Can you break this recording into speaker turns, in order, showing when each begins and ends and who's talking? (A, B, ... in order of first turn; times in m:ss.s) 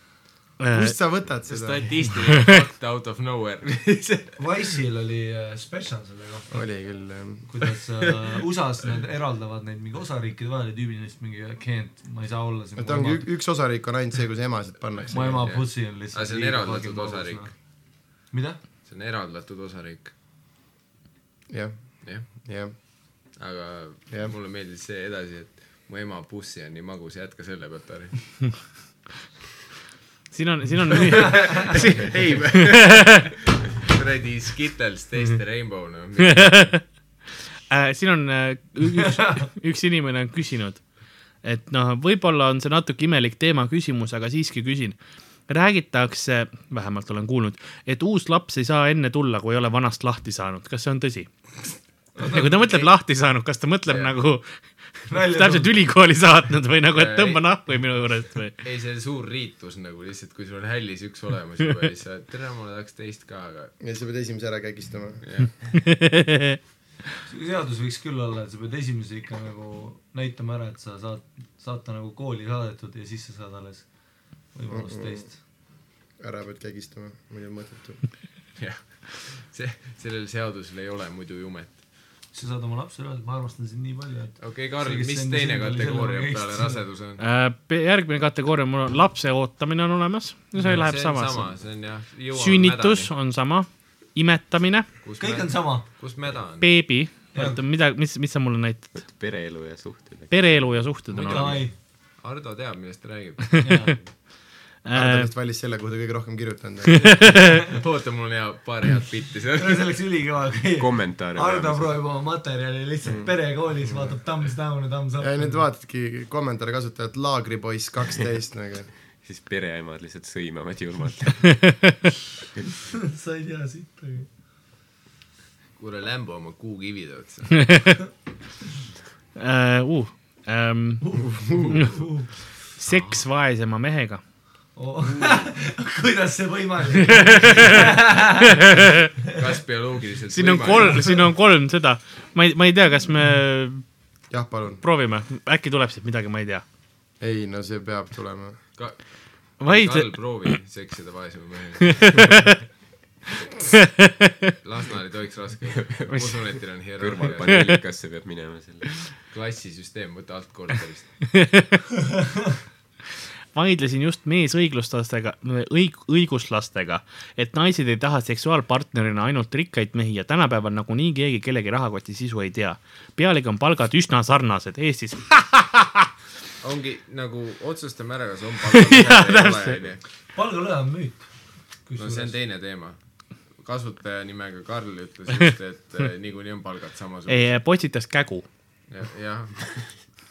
0:00.6-0:01.0 A
0:00.7-0:01.9 B
0:01.5-0:04.4 C
0:02.3-0:02.6 A
0:04.4-0:06.6 D
0:06.5-0:07.5 B
0:07.5-0:13.3 D
0:12.8-0:15.4 B
0:15.1-0:17.6 D
0:15.2-0:17.5 C
0:18.3-0:18.6 D
0:18.8-0:20.1 C
0:21.5-0:22.7 B
0:23.4-0:28.2 C
0:30.3-0:33.3 A
0:31.1-0:36.8 C
0:36.2-0:36.8 A
0:37.4-0:40.8 A
0:41.4-0:45.0 A
0:45.5-0:51.3 A
0:52.2-0:52.8 D
0:52.2-0:54.6 A
0:53.9-0:54.1 C
0:55.1-0:58.6 A
0:55.1-0:55.8 D
0:56.9-0:57.4 C
0:58.6-1:03.7 C
1:03.8-1:05.2 B
1:05.2-1:05.6 C
1:05.7-1:06.6 A
1:07.2-1:13.9 D
1:14.5-1:15.4 D
1:14.7-1:15.3 B
1:16.2-1:18.0 B
1:18.6-1:21.8 C
1:22.3-1:26.8 D
1:24.4-1:27.2 C
1:27.2-1:31.6 A
1:30.6-1:30.8 D
1:30.6-1:33.1 C
1:32.3-1:34.9 A
1:35.0-1:36.7 C
1:35.2-1:35.8 D
1:36.6-1:38.9 A
1:37.3-1:37.6 D
1:38.9-1:40.6 E
1:40.3-1:41.6 A
1:41.1-1:41.7 D
1:41.3-1:41.6 C
1:42.2-1:44.1 C
1:43.6-1:43.9 A
1:43.6-1:44.0 D
1:44.8-1:45.3 A
1:44.9-1:47.4 B
1:46.9-1:47.7 A
1:47.7-1:49.9 C
1:49.6-1:55.6 D
1:50.8-1:52.0 E
1:53.0-1:54.2 B
1:55.2-1:58.9 B
1:59.2-2:01.5 E
2:01.4-2:02.1 A
2:02.9-2:04.3 D
2:05.8-2:07.7 C
2:07.6-2:08.0 A
2:09.4-2:12.1 A
2:11.0-2:12.3 D
2:11.4-2:11.7 B
2:12.8-2:14.2 A
2:14.8-2:18.6 D
2:17.1-2:19.1 A
2:19.2-2:21.1 C
2:20.3-2:23.8 A
2:24.3-2:24.8 B
2:24.8-2:26.6 A
2:27.2-2:28.6 B
2:28.8-2:32.4 C
2:29.6-2:30.1 A
2:31.8-2:32.6 A
2:33.7-2:34.5 A
2:34.6-2:37.6 C
2:35.8-2:36.1 E
2:36.1-2:36.4 A
2:37.0-2:38.9 E
2:37.4-2:37.8 A
2:39.3-2:41.2 C
2:41.3-2:42.0 A
2:43.5-2:56.0 A
2:56.6-3:00.0 C
2:58.7-2:59.8 A
3:00.3-3:02.4 D
3:02.0-3:03.0 C
3:03.6-3:07.6 C
3:07.3-3:08.4 A
3:08.9-3:10.0 C